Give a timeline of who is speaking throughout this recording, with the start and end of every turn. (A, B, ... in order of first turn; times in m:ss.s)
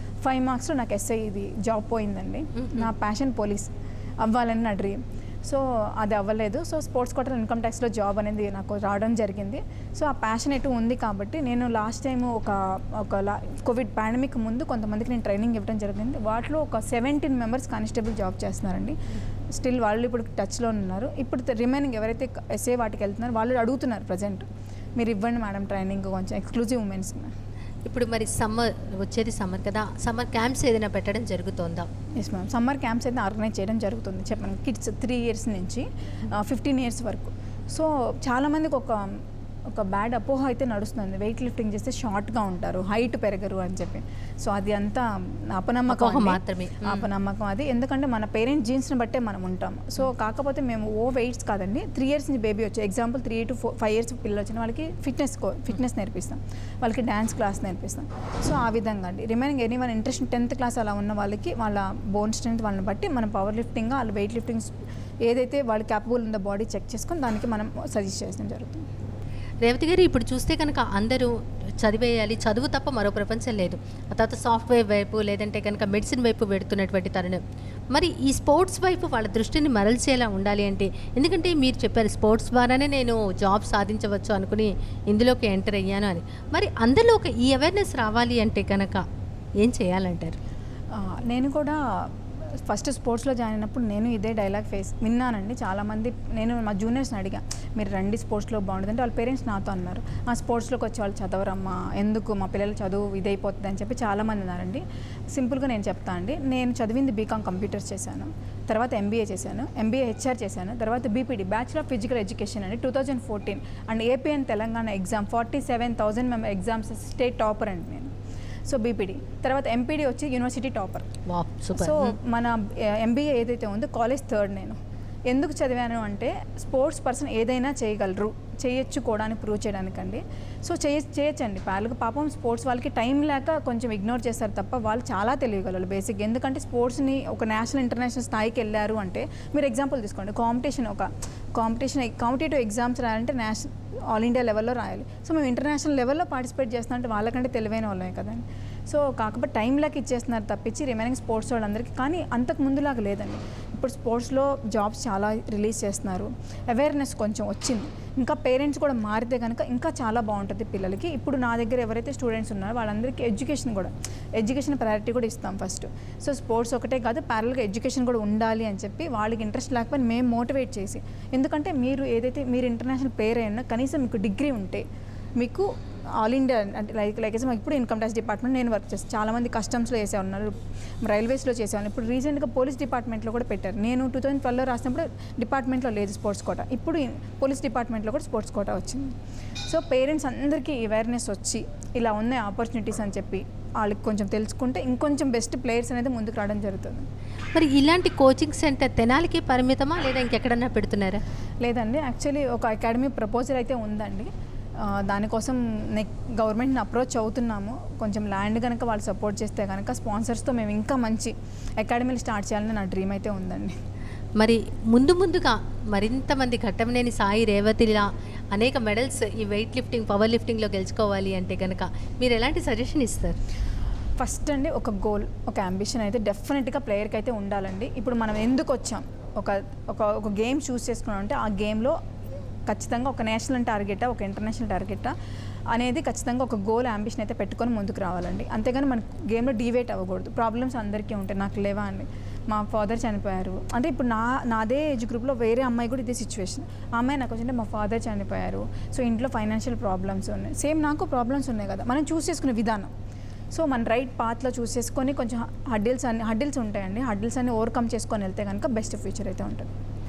0:00.2-0:19.0 A
0:19.5-0:24.4 A
0:25.0-0:27.3 A
0:27.8-0:31.9 B
0:32.1-1:08.9 A
0:45.9-0:47.1 B
1:09.6-1:29.0 B
1:29.6-1:30.4 B
1:30.9-1:58.1 A
1:58.6-2:01.1 A
2:01.3-2:02.2 B
2:01.7-2:04.8 A
2:05.3-2:54.8 A
2:55.4-3:09.1 A
3:09.7-3:17.0 A
3:17.5-3:21.2 B
3:21.6-3:33.8 A
3:34.4-3:43.4 B
3:44.2-3:52.0 A
3:52.7-3:55.1 A
3:55.7-4:12.9 A
4:13.5-4:19.7 A